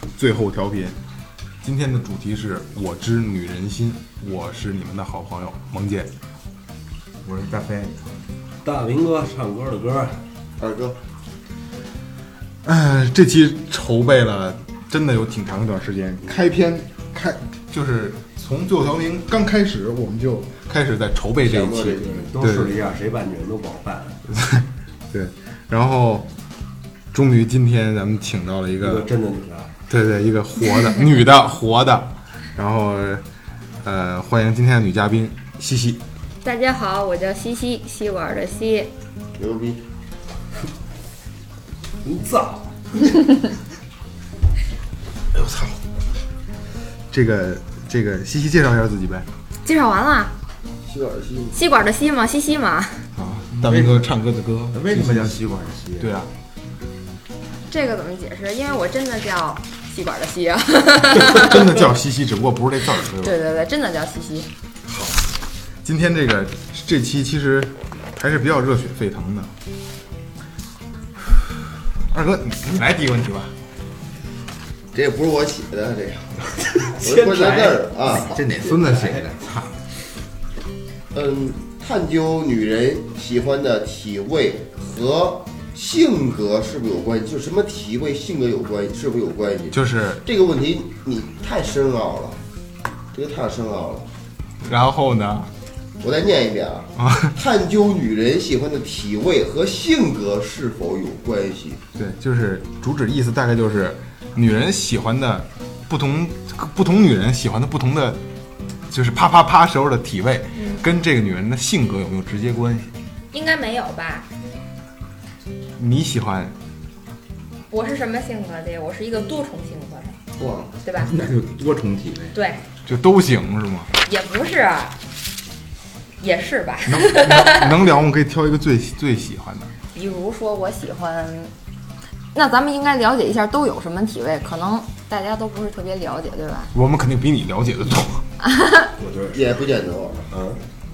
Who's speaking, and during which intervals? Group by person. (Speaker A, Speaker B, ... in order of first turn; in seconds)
Speaker A: 0.2-1.0, 1.6-6.1, 12.6-22.8, 24.3-26.3, 27.1-29.1, 29.9-33.2, 33.8-36.0, 47.1-49.3, 53.2-55.4, 56.0-56.3, 61.2-63.4, 64.9-65.2, 65.8-69.5, 72.1-73.5, 89.7-90.2, 94.6-95.5, 97.0-97.4, 102.0-108.2, 108.9-112.9, 115.8-116.5, 122.9-123.9, 126.9-129.7, 136.7-138.2
Speaker B: 7.2-8.1, 53.5-54.1, 54.7-56.1, 78.0-79.7, 121.0-122.4
Speaker C: 8.6-10.2, 22.1-24.2, 28.8-29.7, 42.0-42.7, 76.8-77.9, 78.9-79.2, 139.0-139.4, 140.3-140.6
Speaker D: 10.6-11.0, 21.4-22.3, 39.4-39.8, 50.9-51.6, 74.9-78.5, 81.1-92.4, 93.1-94.1, 96.0-101.8, 120.4-120.7, 139.3-140.3
Speaker E: 36.4-38.9, 49.6-50.3, 51.5-53.0, 57.7-61.8, 63.2-64.5, 110.6-110.9, 113.3-114.3, 117.7-120.2, 120.8-121.1, 122.3-122.6, 124.0-124.9, 126.2-127.7, 129.9-131.5, 132.3-136.7, 138.5-138.9